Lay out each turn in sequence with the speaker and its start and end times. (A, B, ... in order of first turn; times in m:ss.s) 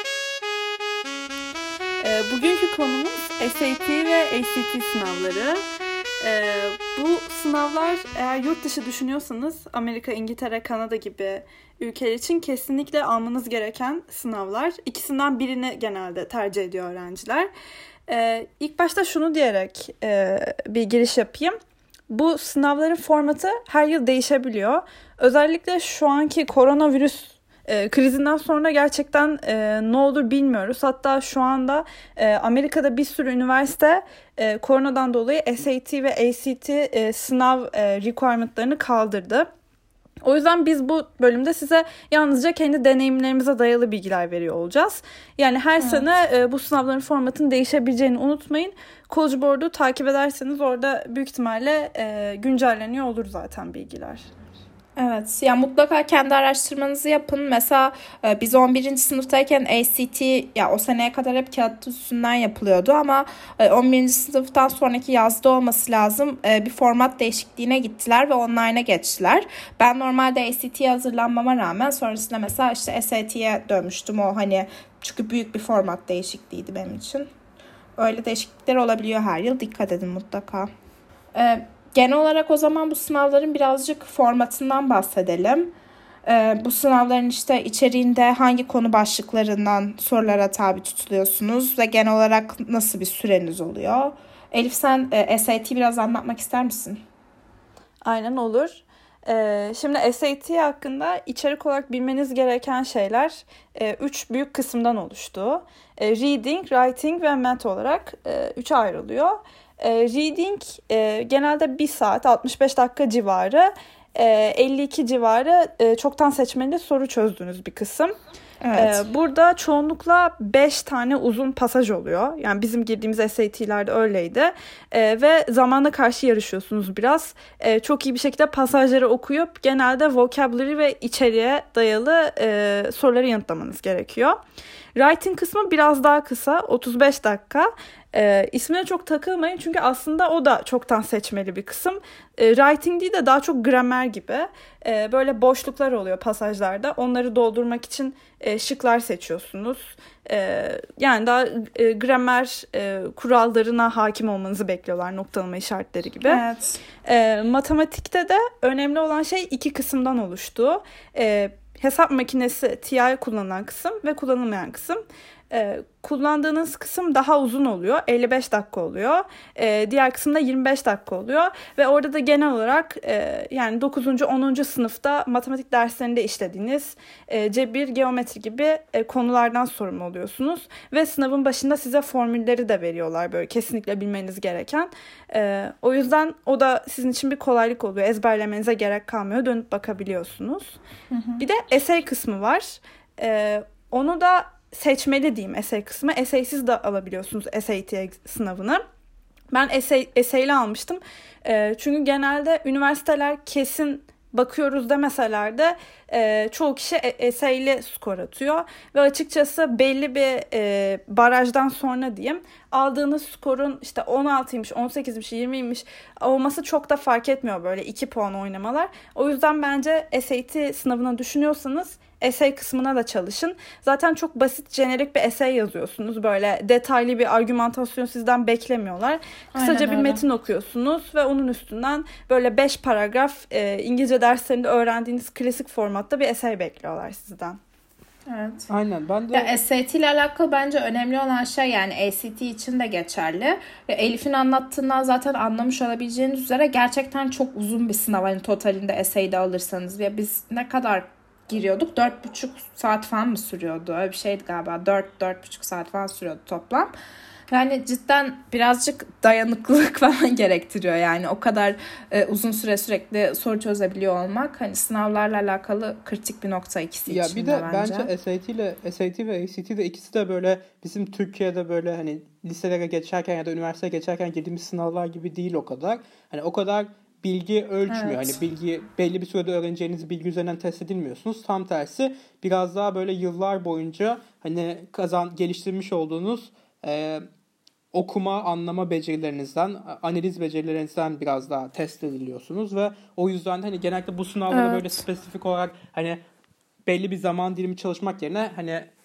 0:02.0-0:05.6 A
0:06.2-0:17.5 A
0:18.1-0:21.6 A
0:22.1-0:39.5 A
0:40.2-0:54.3 A
0:55.0-1:17.3 B
1:18.0-1:20.7 B
1:21.4-1:25.7 B
1:26.3-1:37.0 B
1:38.0-1:58.2 A
1:58.6-1:59.0 B
1:58.7-2:14.4 A
2:15.0-2:36.4 A
2:36.3-2:36.8 B
2:37.0-3:10.8 A
3:11.1-3:11.4 B
3:11.4-3:18.8 A
3:19.5-3:57.6 A
3:49.5-3:50.2 B
3:58.3-3:58.7 B
3:58.7-3:59.5 C
3:59.3-4:16.9 B
4:17.5-4:28.1 B
4:27.1-4:47.3 C
4:37.9-4:38.4 B
4:47.9-4:56.2 C
4:54.5-4:55.0 B
4:56.9-4:58.9 C